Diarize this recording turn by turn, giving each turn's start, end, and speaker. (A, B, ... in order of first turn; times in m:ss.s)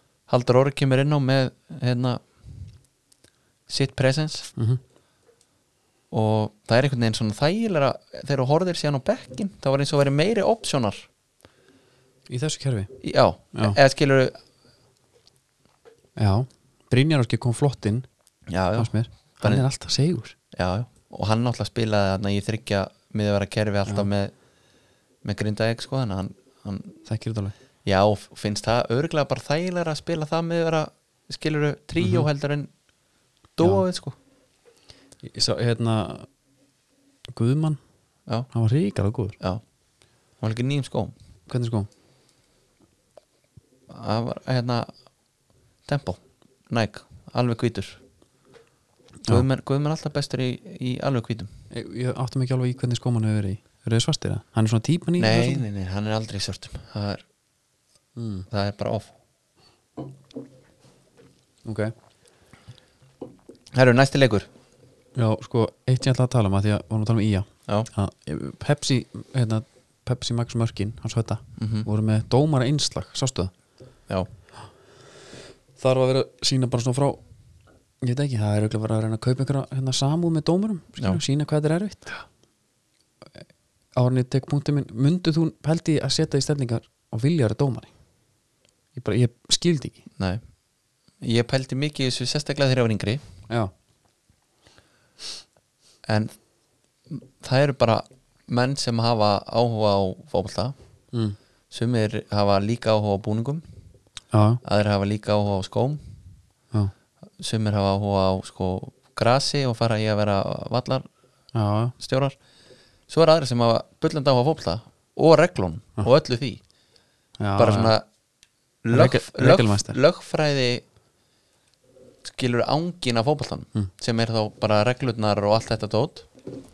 0:00.3-0:02.2 A
0:03.7-0:04.5 A
0:06.1-0:11.1 A
0:12.3-0:12.9 B
0:13.0-0:14.4 A
0:16.2-0:18.1 B
0:18.5-0:18.9 A
0:18.8-0:20.4 B
0:20.5-0:24.3 A
0:25.2-0:27.0 A
0:27.0-0:27.5 B
0:27.8-0:32.7 A
0:32.0-0:32.3 B
0:33.6-0:34.2 A
0:35.3-0:36.3 B
0:37.3-0:37.8 B
0:38.5-0:39.4 B
0:40.4-0:41.1 A
0:41.5-0:41.9 B
0:43.9-0:44.9 A
0:45.9-0:48.0 A
0:49.3-0:51.5 A
0:51.7-0:55.6 B
0:55.2-0:57.2 A
0:58.2-0:58.5 B
0:58.5-0:59.1 A
1:01.6-1:01.9 B
1:03.7-1:04.5 A
1:05.2-1:13.5 B
1:11.6-1:11.9 A
1:15.8-1:17.2 B
1:18.0-1:22.1 B
1:24.0-1:27.9 B
1:29.0-1:30.0 B
1:31.2-1:33.2 A
1:36.0-1:36.3 A
1:37.1-1:40.8 A
1:41.1-1:41.4 B
1:41.7-1:43.6 A
1:44.3-1:44.6 B
1:44.6-1:46.0 A
1:47.4-1:51.0 A
1:51.6-1:52.0 B
1:52.0-1:52.4 A
1:53.1-1:56.6 A
1:57.4-1:58.0 B
1:57.6-1:58.0 A
1:58.8-2:00.8 A
1:58.9-2:00.0 B
2:02.2-2:06.3 A